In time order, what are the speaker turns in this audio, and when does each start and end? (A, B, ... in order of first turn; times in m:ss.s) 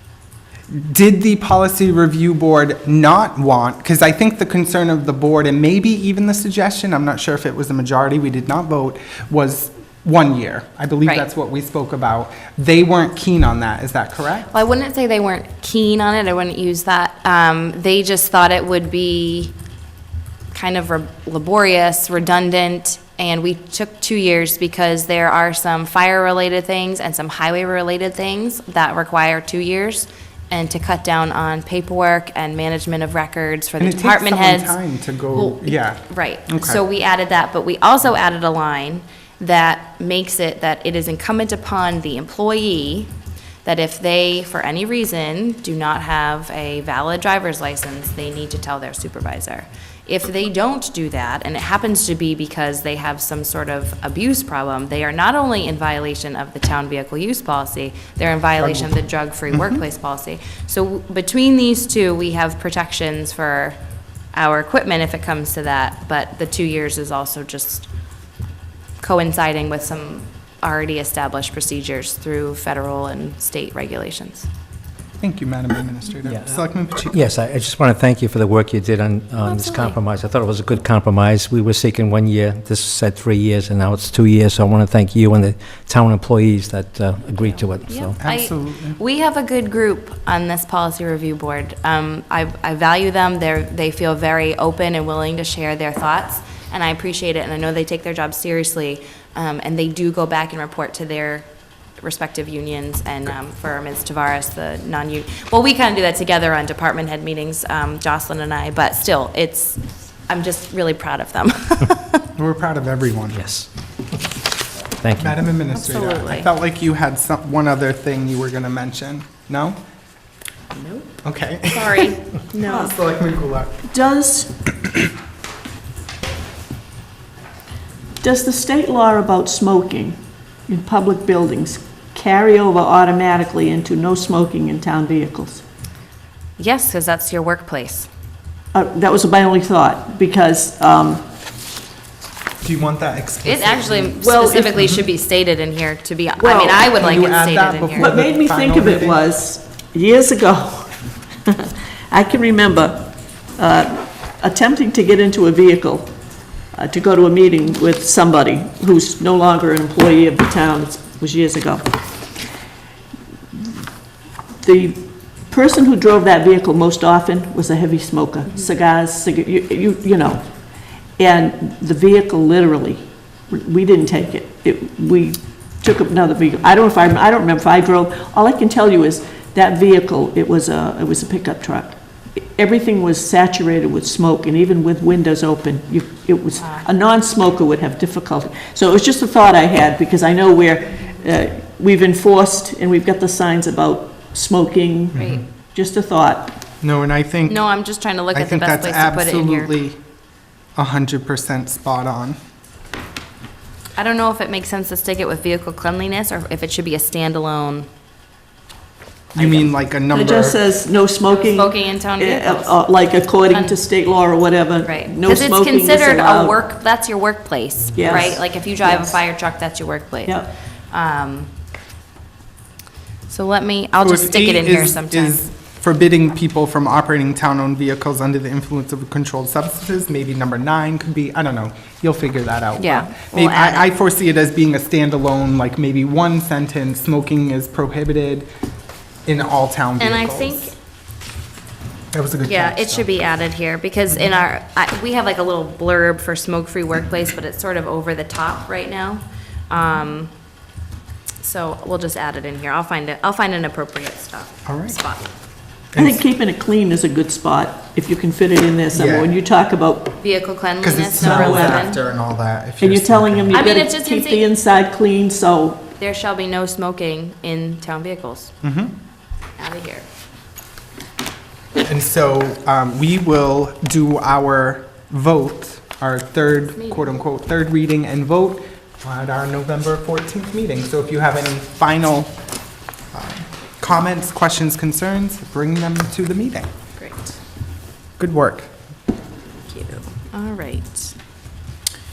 0:00.7-0:14.5 A
0:14.5-0:19.5 B
0:20.5-0:34.8 B
0:33.8-0:36.8 A
0:35.3-0:43.1 B
0:43.6-1:03.8 B
0:58.6-0:59.0 A
0:59.5-0:59.8 A
1:04.3-1:07.9 B
1:09.0-1:14.5 B
1:15.2-1:17.2 A
1:16.2-1:28.2 C
1:19.4-1:20.0 B
1:27.4-1:41.4 B
1:28.2-1:29.0 A
1:42.0-1:52.2 B
1:52.3-1:53.4 A
1:53.3-1:53.7 C
1:55.0-1:55.4 C
1:55.2-1:59.8 A
1:55.7-1:56.5 B
2:00.7-2:01.1 B
2:01.2-2:02.1 A
2:01.7-2:02.9 B
2:02.7-2:03.8 A
2:03.9-2:04.6 D
2:08.2-2:15.6 D
2:16.6-2:18.1 B
2:18.7-2:21.2 D
2:22.6-2:24.2 A
2:23.4-2:28.1 B
2:24.2-2:24.9 D
2:26.4-2:26.9 D
2:26.9-2:29.2 A
2:28.0-2:30.9 D
2:31.4-2:36.1 D
2:36.7-2:41.9 D
2:44.6-2:50.4 D
2:51.2-3:15.2 D
3:06.6-3:06.8 B
3:15.1-3:15.4 A
3:15.1-3:15.4 B
3:15.7-3:16.6 D
3:16.8-3:17.6 A
3:17.5-3:19.7 B
3:18.3-3:20.0 A
3:20.8-3:22.4 A
3:24.0-3:27.9 B
3:29.3-3:30.6 A
3:29.4-3:29.7 B
3:30.1-3:36.6 D
3:31.3-3:32.8 B
3:33.5-3:33.8 B
3:34.8-3:41.5 B
3:37.9-3:39.2 D
3:40.2-3:40.5 D
3:43.3-3:45.4 B
3:44.0-3:58.5 A
3:52.8-3:53.9 B
3:59.2-4:00.6 A
4:00.0-4:00.7 B
4:02.1-4:03.1 A
4:02.4-4:10.3 B
4:11.4-4:15.3 B
4:14.6-4:15.0 A
4:15.9-4:16.2 A
4:16.0-4:20.2 D
4:18.9-4:19.3 A
4:20.2-4:22.0 B
4:20.8-4:23.6 A
4:21.2-4:21.9 D
4:22.8-4:25.9 D
4:23.5-4:24.5 B
4:26.0-4:28.5 B
4:28.6-4:28.9 A
4:29.6-4:30.0 B
4:31.8-4:42.3 A
4:36.7-4:37.1 B
4:43.1-4:46.7 A
4:47.0-4:47.4 B
4:48.2-4:48.7 A
4:49.6-4:51.1 B